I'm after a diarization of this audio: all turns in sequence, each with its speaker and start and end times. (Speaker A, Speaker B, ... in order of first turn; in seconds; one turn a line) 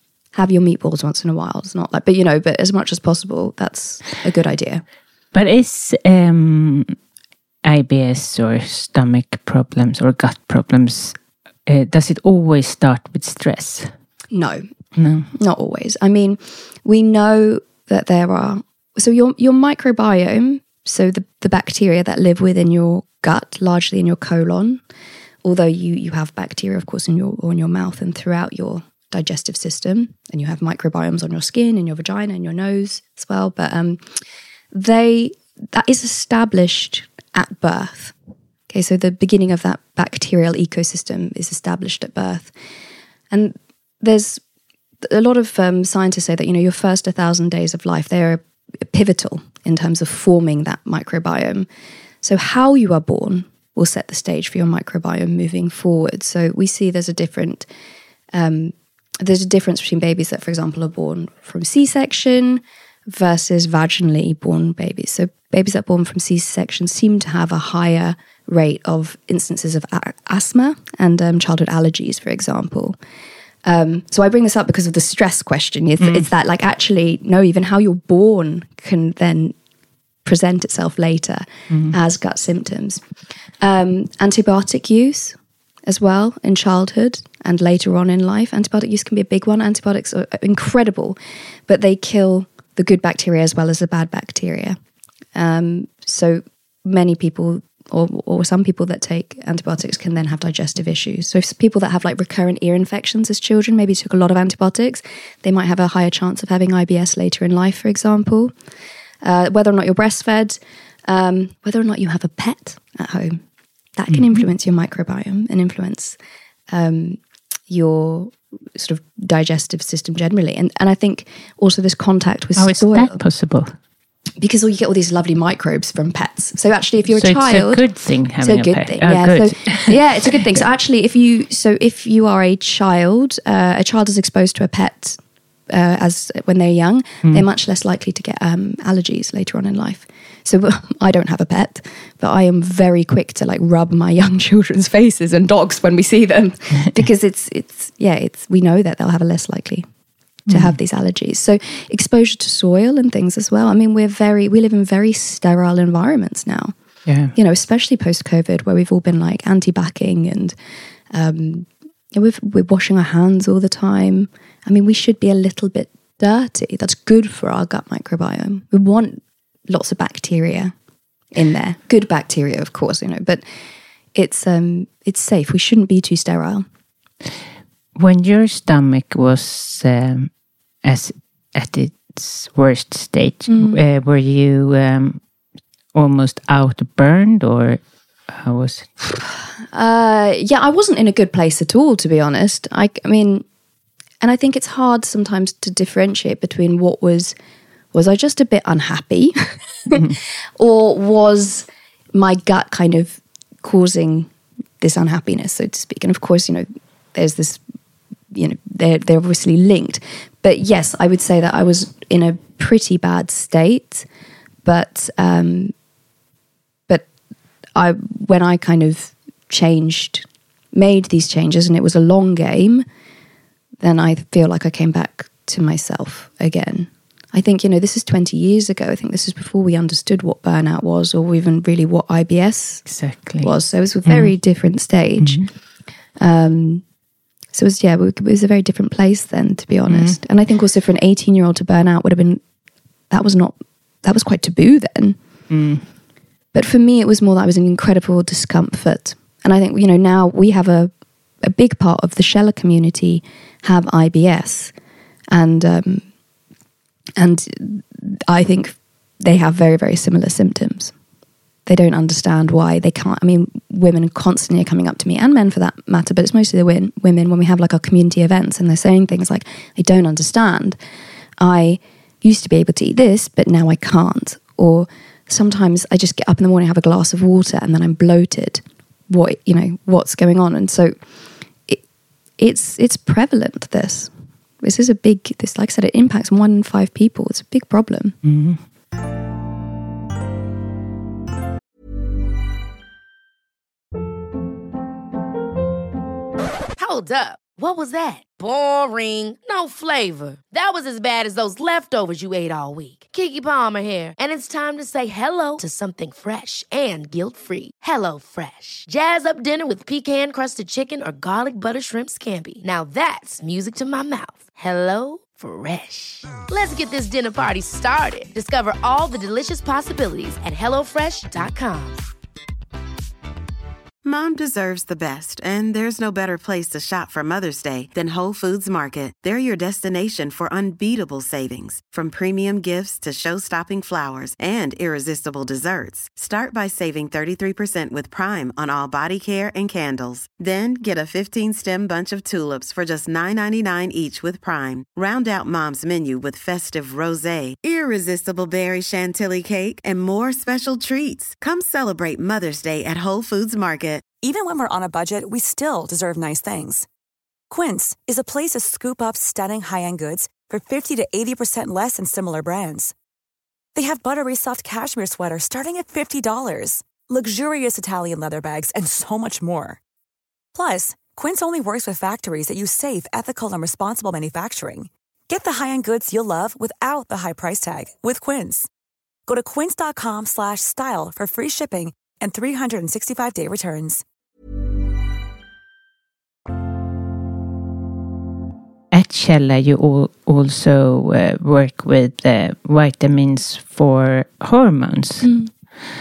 Speaker A: 0.3-4.8
Speaker B: 5.3-7.0
Speaker B: 7.6-13.9
Speaker A: 14.3-14.7
Speaker B: 15.0-15.3
Speaker A: 15.3-24.8
Speaker A: 25.4-34.0
Speaker A: 34.7-38.1
Speaker A: 38.7-42.5
Speaker A: 43.3-44.4
Speaker A: 45.0-51.7
Speaker A: 52.2-57.7
Speaker A: 58.3-73.0
Speaker A: 73.6-79.5
Speaker B: 76.0-76.2
Speaker A: 80.2-83.0
Speaker B: 81.7-81.9
Speaker A: 83.6-94.8
Speaker A: 95.3-108.5
Speaker A: 109.2-113.4
Speaker A: 114.0-116.2
Speaker B: 114.1-114.4
Speaker A: 116.7-123.2
Speaker B: 122.5-123.7
Speaker A: 124.4-127.9
Speaker B: 127.1-130.0
Speaker A: 128.4-149.9
Speaker A: 150.5-156.7
Speaker B: 150.5-150.8
Speaker B: 157.1-157.3
Speaker A: 157.3-160.5
Speaker A: 161.1-170.7
Speaker A: 171.3-173.4
Speaker A: 174.1-176.7
Speaker B: 177.9-180.3
Speaker B: 180.8-185.2
Speaker A: 183.5-183.8
Speaker B: 185.9-189.0
Speaker A: 189.7-193.4
Speaker A: 194.2-197.3
Speaker A: 197.9-207.6
Speaker A: 208.3-214.1
Speaker A: 214.6-215.7
Speaker A: 217.8-222.8
Speaker A: 223.8-232.8
Speaker B: 232.8-233.5
Speaker A: 233.4-235.4
Speaker B: 234.1-234.3
Speaker B: 235.2-235.5
Speaker A: 236.2-236.8
Speaker A: 237.5-242.4
Speaker B: 239.9-240.2
Speaker A: 243.1-245.2
Speaker B: 245.5-245.8
Speaker A: 246.5-254.7
Speaker A: 255.3-256.1
Speaker A: 257.2-260.9
Speaker A: 261.6-270.8
Speaker A: 271.4-280.9
Speaker A: 282.4-288.1
Speaker B: 288.2-288.6
Speaker C: 296.8-322.0
Speaker D: 324.0-354.0
Speaker E: 354.2-356.9
Speaker E: 357.5-362.9
Speaker E: 363.7-369.8
Speaker E: 370.5-378.7
Speaker E: 379.3-384.0
Speaker B: 388.9-395.3
Speaker A: 395.2-395.5